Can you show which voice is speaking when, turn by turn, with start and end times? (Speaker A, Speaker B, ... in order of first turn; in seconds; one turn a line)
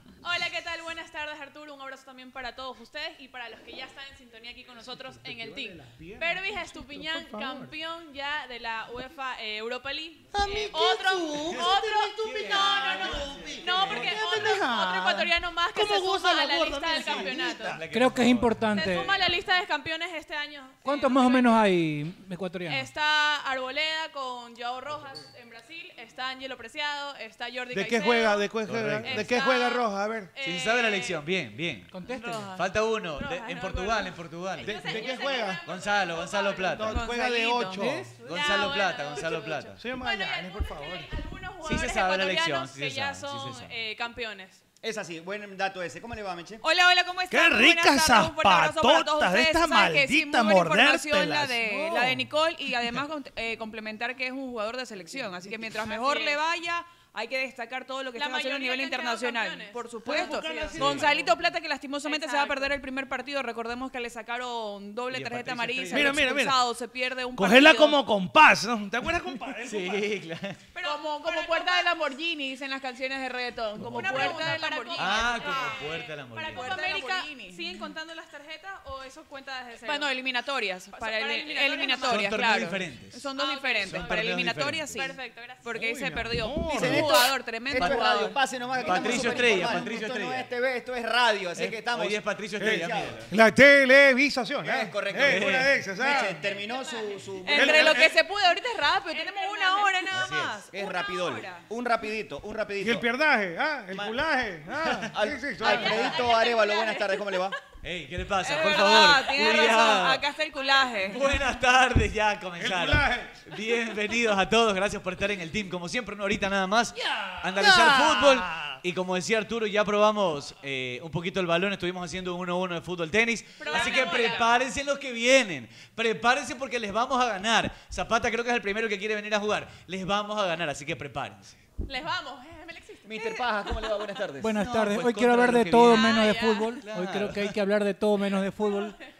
Speaker A: 0.2-17.8
Speaker B: 4.8-7.7
Speaker B: 10.3-17.8
Speaker C: 12.2-14.2
Speaker C: 17.0-18.7
Speaker D: 17.9-19.1
Speaker A: 18.7-21.8
Speaker D: 20.8-22.9
Speaker A: 22.7-31.2
Speaker B: 27.7-30.3
Speaker C: 28.6-29.3
Speaker C: 30.4-31.9
Speaker D: 31.9-32.5
Speaker E: 32.1-32.6
Speaker C: 32.5-37.0
Speaker A: 33.1-37.2
Speaker B: 34.6-35.6
Speaker B: 36.7-38.1
Speaker E: 36.8-37.8
Speaker D: 37.7-38.2
Speaker A: 38.2-44.6
Speaker C: 38.2-39.8
Speaker B: 39.8-41.1
Speaker C: 41.6-43.7
Speaker F: 44.8-46.6
Speaker E: 46.6-68.0
Speaker B: 47.3-52.3
Speaker A: 55.8-56.4
Speaker A: 58.1-61.3
Speaker B: 60.0-61.1
Speaker A: 62.0-62.8
Speaker C: 65.1-66.2
Speaker B: 65.9-66.6
Speaker B: 67.3-70.2
Speaker C: 69.6-70.6
Speaker A: 70.7-71.9
Speaker E: 70.8-75.9
Speaker A: 73.8-80.2
Speaker C: 75.0-76.8
Speaker E: 76.5-77.9
Speaker E: 79.8-89.6
Speaker A: 80.9-82.4
Speaker C: 82.1-83.3
Speaker A: 83.3-84.4
Speaker C: 83.8-85.0
Speaker A: 84.9-85.7
Speaker B: 85.7-87.1
Speaker F: 86.7-93.2
Speaker C: 87.7-88.0
Speaker C: 88.8-90.5
Speaker A: 88.9-89.9
Speaker C: 91.5-93.3
Speaker B: 92.6-96.4
Speaker F: 94.6-98.0
Speaker C: 95.2-95.7
Speaker A: 96.1-98.1
Speaker E: 97.4-101.6
Speaker B: 97.5-98.1
Speaker A: 99.1-100.1
Speaker C: 100.1-100.6
Speaker F: 100.7-103.0
Speaker B: 102.8-106.2
Speaker F: 103.9-104.2
Speaker C: 104.8-105.1
Speaker F: 105.1-107.6
Speaker A: 105.6-107.5
Speaker E: 105.9-106.2
Speaker C: 107.8-110.2
Speaker E: 108.4-111.3
Speaker A: 108.5-111.4
Speaker C: 111.0-131.6
Speaker B: 112.6-113.4
Speaker B: 117.5-118.8
Speaker A: 123.6-124.6
Speaker E: 123.7-124.4
Speaker A: 131.8-134.2
Speaker F: 133.0-134.6
Speaker D: 134.4-138.9
Speaker C: 134.6-136.3
Speaker A: 135.9-136.8
Speaker C: 136.8-137.5
Speaker A: 138.6-138.9